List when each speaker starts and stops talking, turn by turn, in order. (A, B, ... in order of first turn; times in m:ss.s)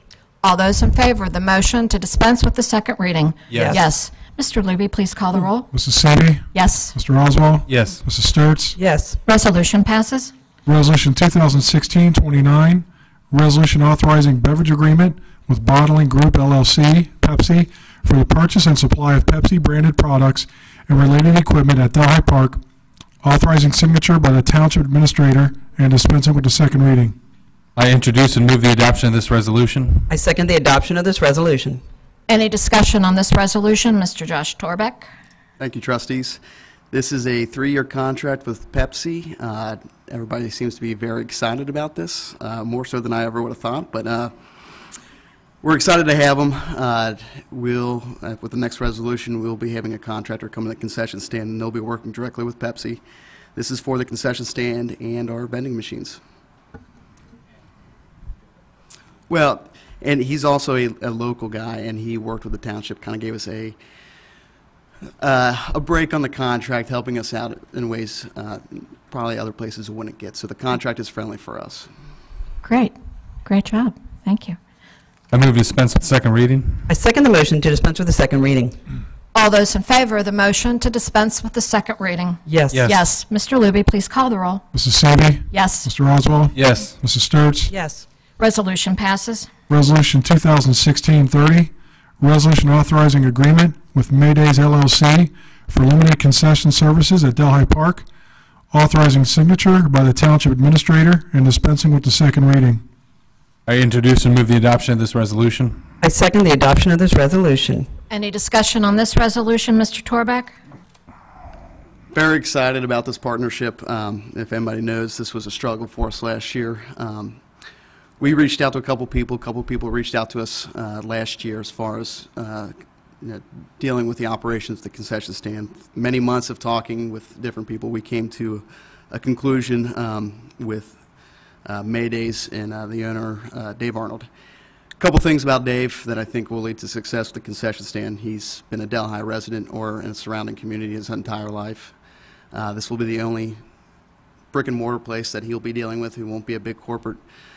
0:00.4-0:05.7 A
0:03.5-0:03.8 B
0:05.7-0:08.8 C
0:06.5-0:06.9 A
0:07.7-0:08.0 B
0:08.8-0:09.0 D
0:09.2-0:10.3 A
0:10.6-0:22.6 C
0:23.2-0:27.1 C
0:27.8-0:30.1 B
0:30.1-0:31.8 D
0:32.3-0:35.1 A
0:35.6-0:36.4 E
0:36.9-0:44.3 E
0:45.6-0:53.0 E
0:53.5-0:56.2 E
0:59.3-1:03.8 E
1:05.2-1:11.9 E
1:12.6-1:12.9 A
1:13.4-1:14.6 A
1:15.3-1:16.9 B
1:16.9-1:18.7 D
1:19.3-1:24.6 A
1:22.5-1:22.7 D
1:22.7-1:23.0 B
1:24.7-1:27.7 C
1:25.5-1:25.9 A
1:26.5-1:26.9 B
1:27.7-1:28.0 D
1:28.4-1:29.5 A
1:29.7-1:38.0 C
1:38.7-1:42.8 C
1:43.6-1:45.8 B
1:46.0-1:47.8 D
1:48.1-1:50.5 A
1:52.1-1:57.4 E
1:58.2-2:11.0 E
2:11.6-2:14.3 E
2:15.0-2:21.9 E
2:22.5-2:23.6 E
2:24.5-2:27.2 E